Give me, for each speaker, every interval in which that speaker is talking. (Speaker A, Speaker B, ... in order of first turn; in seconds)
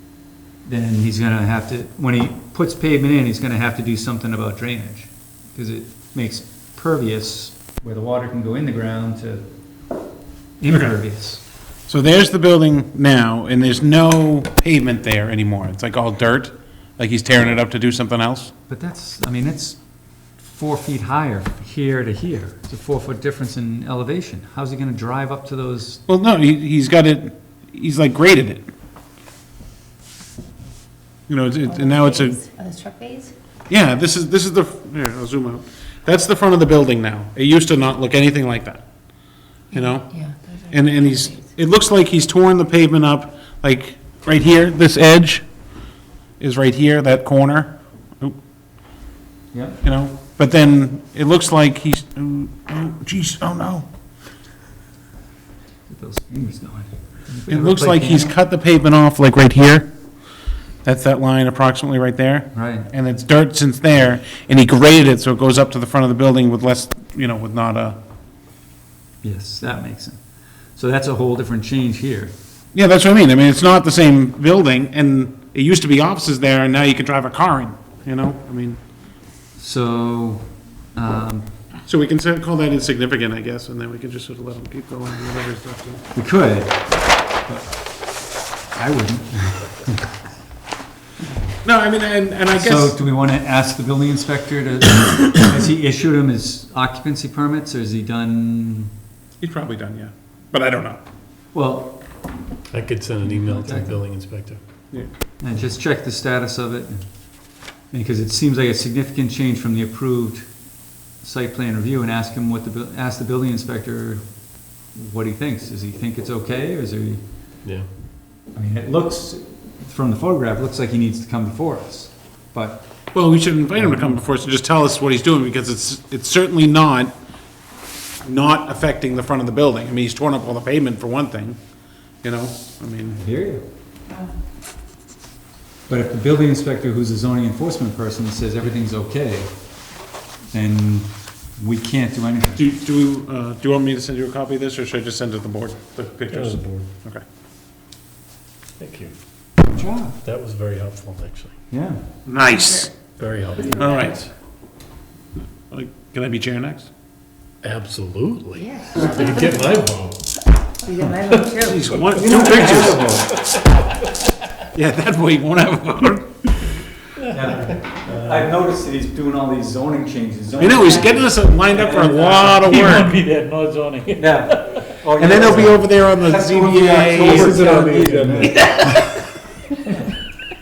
Speaker A: 0.6-9.4, 10.6-11.4, 18.7-19.8, 20.4-26.0, 49.5-49.8, 55.9-58.4, 62.5-62.9, 69.2-70.2, 70.8-72.3, 79.6-81.5, 86.1-86.8, 88.7-90.1, 92.5-98.9, 101.5-102.0, 103.2-104.0, 105.4-107.0, 107.9-110.5, 111.2-114.2, 114.9-117.2, 118.5-122.9, 123.8-124.2, 133.1-133.6, 135.9-139.5, 140.5-142.6, 149.6-150.2, 151.7-152.0, 162.1-163.3, 167.3-172.8, 174.2-179.1
Speaker B: 10.7-11.0, 11.9-18.5, 26.1-28.7, 31.3-32.4, 33.7-38.8, 39.7-40.2, 40.7-45.5, 46.4-48.4, 49.8-53.9, 57.5-59.9, 60.9-68.0, 72.7-78.8, 81.9-86.0, 91.6-93.0, 99.4-101.0, 123.1-127.1, 128.2-131.6, 132.2-133.2, 142.6-147.2, 152.3-152.9, 153.7-154.2, 155.7-156.9, 161.6-163.1, 164.7-166.8, 170.6-173.1, 175.2-177.7
Speaker C: 31.8-33.3, 39.8-41.3, 153.6-154.2, 158.6-159.8, 160.8-162.1
Speaker D: 102.7-104.6, 146.3-146.9, 148.8-149.1, 150.2-151.5, 153.2-154.1, 157.6-160.2, 167.6-168.5, 177.2-178.9
Speaker E: 172.1-174.9